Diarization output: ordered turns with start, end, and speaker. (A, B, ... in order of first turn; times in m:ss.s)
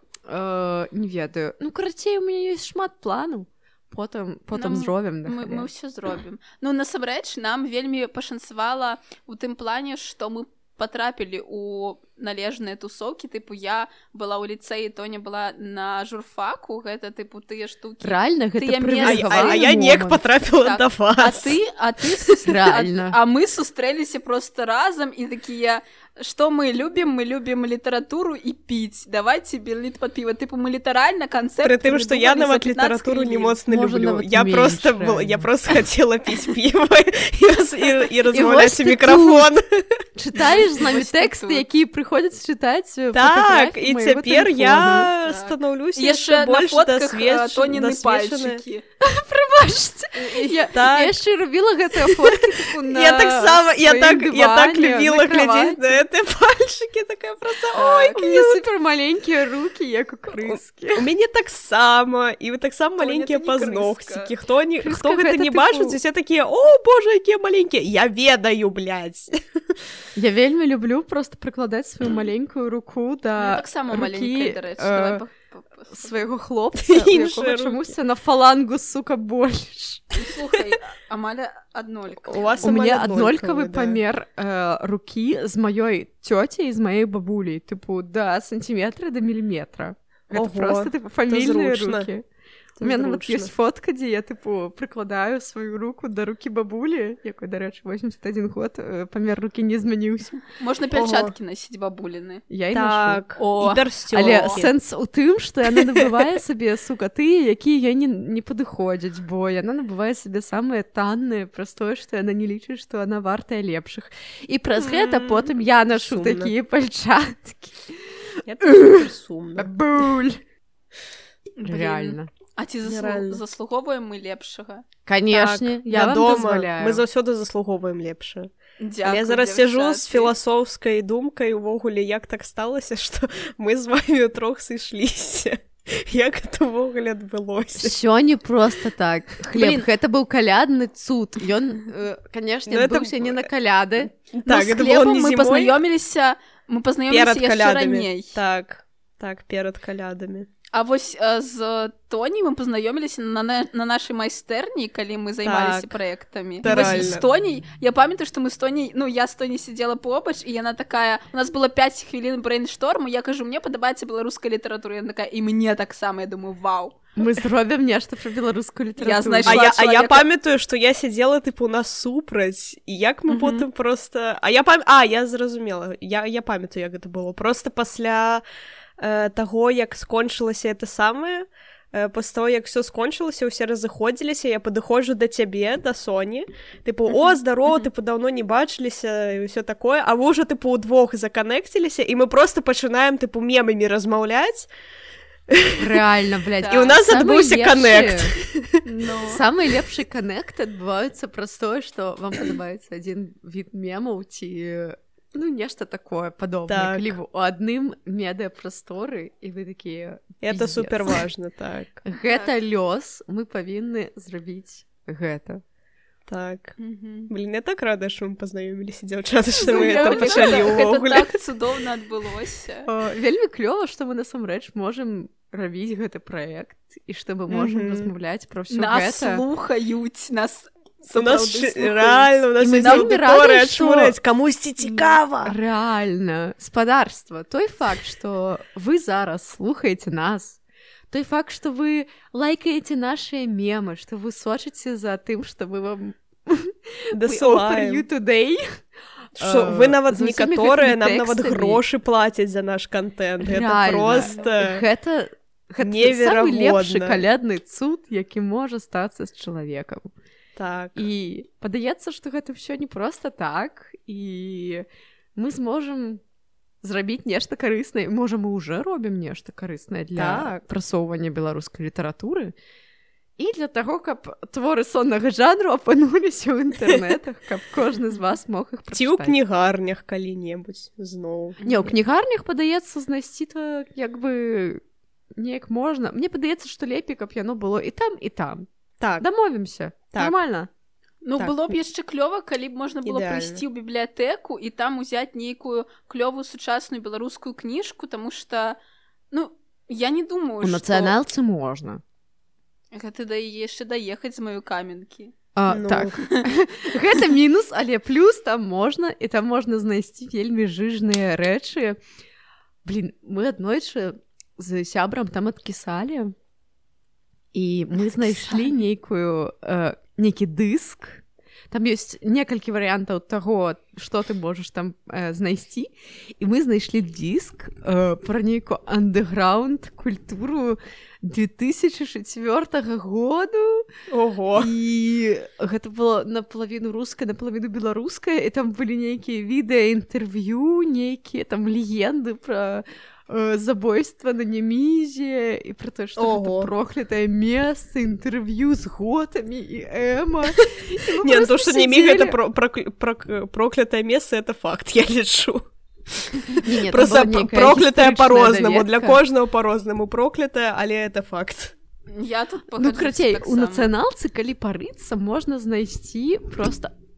0:00.2-0:05.7 A
0:04.5-0:19.7 B
0:18.0-0:20.2 A
0:19.0-0:21.6 C
0:20.6-0:33.6 B
0:22.4-0:23.2 A
0:31.6-0:39.6 C
0:33.7-0:35.5 A
0:38.3-0:39.5 A
0:40.2-0:45.1 A
0:40.4-0:41.6 B
0:43.1-0:48.6 C
0:45.1-0:48.8 B
0:49.0-0:56.0 A
0:50.2-0:50.7 B
0:50.7-0:51.2 C
0:52.1-0:58.6 C
0:57.8-0:58.2 B
0:57.8-1:01.1 A
1:00.5-1:09.4 C
1:03.0-1:04.3 B
1:04.8-1:06.0 A
1:10.2-1:15.2 A
1:13.4-1:16.3 B
1:15.9-1:20.1 A
1:16.8-1:17.8 C
1:20.2-1:22.6 B
1:22.3-1:24.0 C
1:22.6-1:32.2 A
1:30.3-1:32.1 C
1:32.8-1:33.5 C
1:32.8-1:40.4 A
1:40.6-1:42.4 B
1:40.9-1:41.3 C
1:42.5-1:43.2 A
1:42.7-1:44.7 C
1:43.4-1:44.6 B
1:44.1-2:00.4 A
1:45.7-1:46.3 C
1:54.8-1:56.5 C
1:58.4-1:59.7 C
2:01.6-2:04.8 B
2:01.6-2:02.3 A
2:02.8-2:03.4 C
2:05.0-2:07.0 A
2:05.3-2:08.5 C
2:08.8-2:10.3 B
2:09.0-2:18.0 C
2:17.7-2:24.1 A
2:19.5-2:19.9 B
2:22.7-2:23.5 C
2:24.3-2:25.8 C
2:24.4-2:28.4 B
2:27.1-2:30.5 C
2:30.7-2:47.2 B
2:35.4-2:36.0 C
2:36.6-2:37.2 C
2:47.2-2:49.6 A
2:49.0-2:50.2 B
2:49.4-2:58.4 C
2:53.3-2:53.6 B
2:59.0-3:14.7 C
3:15.5-3:16.0 C
3:15.8-3:18.3 A
3:16.6-3:16.9 B
3:16.7-3:18.8 C
3:18.8-3:19.4 B
3:19.3-3:31.2 A
3:26.7-3:27.2 C
3:30.4-3:32.0 C
3:32.0-3:35.6 A
3:32.2-3:32.5 B
3:36.3-3:36.7 C
3:36.8-3:37.3 B
3:37.3-3:41.3 C
3:39.6-3:40.8 A
3:39.6-3:42.9 B
3:42.8-3:49.4 A
3:47.5-3:48.1 C
3:48.7-3:53.1 B
3:51.1-3:55.5 C
3:52.6-3:54.1 A
3:54.8-3:55.2 B
3:55.4-4:00.6 A
4:01.1-4:11.8 A
4:07.1-4:08.0 C
4:09.4-4:14.8 C
4:13.4-4:20.1 A
4:15.8-4:17.2 C
4:20.6-4:21.0 C
4:21.0-4:24.8 A
4:25.4-4:26.2 A
4:26.8-4:32.5 A
4:30.2-4:30.6 C
4:33.4-4:39.4 A
4:38.9-4:41.6 C
4:41.6-4:41.9 B
4:41.6-4:44.8 A
4:45.4-4:48.7 A
4:49.0-4:49.2 C
4:49.2-4:50.7 A
4:51.2-4:58.8 B
4:51.4-4:51.8 C
4:53.0-4:53.6 C
4:59.3-5:01.2 B
5:00.6-5:02.0 A
5:02.9-5:05.3 B
5:05.5-5:12.0 A
5:05.7-5:06.2 C
5:12.8-5:16.3 A
5:17.5-5:33.9 A
5:34.1-5:34.7 C
5:34.5-5:52.4 A
5:46.2-5:46.7 C
5:51.2-6:01.7 C
5:56.6-5:59.2 A
6:02.1-6:03.9 B
6:02.8-6:06.9 A